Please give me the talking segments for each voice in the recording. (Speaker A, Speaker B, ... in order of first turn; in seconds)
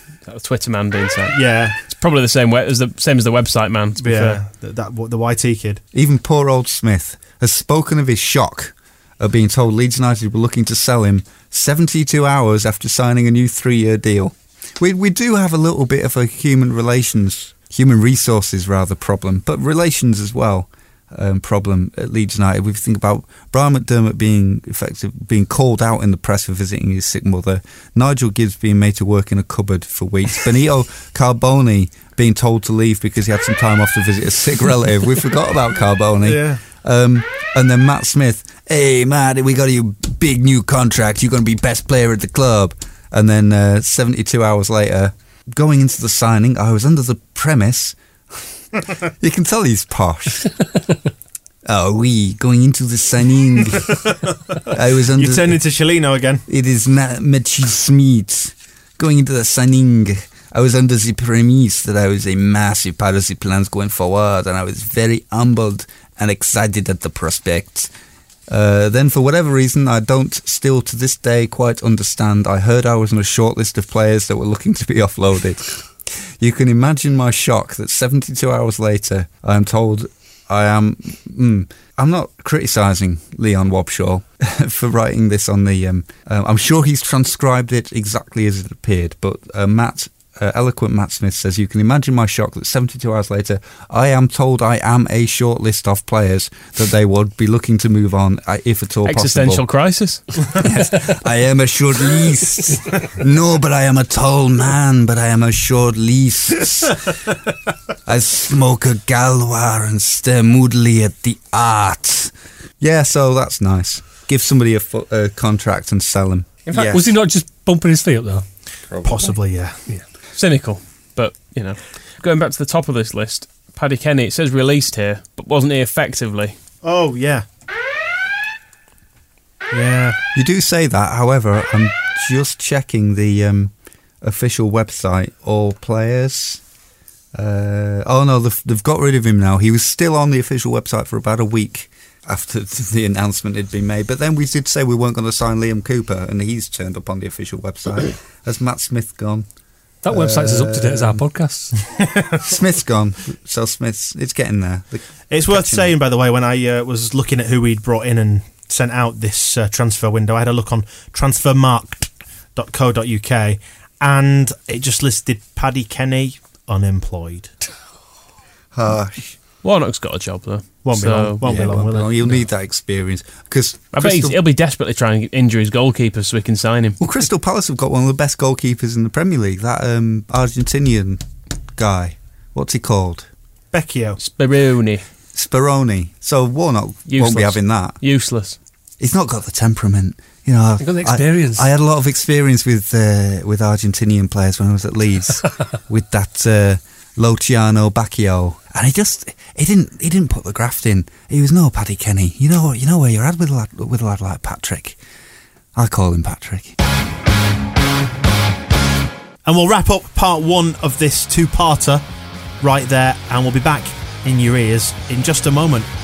Speaker A: 0.3-4.4, 99.0-100.2, 120.3-126.5, 169.6-171.5, 173.9-177.0, 184.2-185.1, 187.1-188.6
Speaker B: 1.3-1.8, 4.0-5.8, 36.2-36.6, 54.0-54.5, 55.1-56.5, 119.0-119.8, 126.8-127.5, 129.7-130.2, 155.3-167.5, 170.8-172.4, 183.7-184.2, 209.5-212.0, 212.6-215.9
Speaker C: 5.9-48.0, 49.0-50.5, 51.6-54.0, 54.7-55.6, 56.5-67.9, 68.5-99.7, 100.5-107.3, 108.1-117.0, 118.9-119.3, 130.3-136.6, 137.3-149.5, 150.1-151.3, 152.4-155.9, 168.7-169.4, 171.4-174.4, 177.0-181.2, 181.8-183.3, 185.3-188.0, 189.0-205.0, 205.8-206.8
Speaker D: 116.8-118.5, 150.0-151.8, 190.8-191.7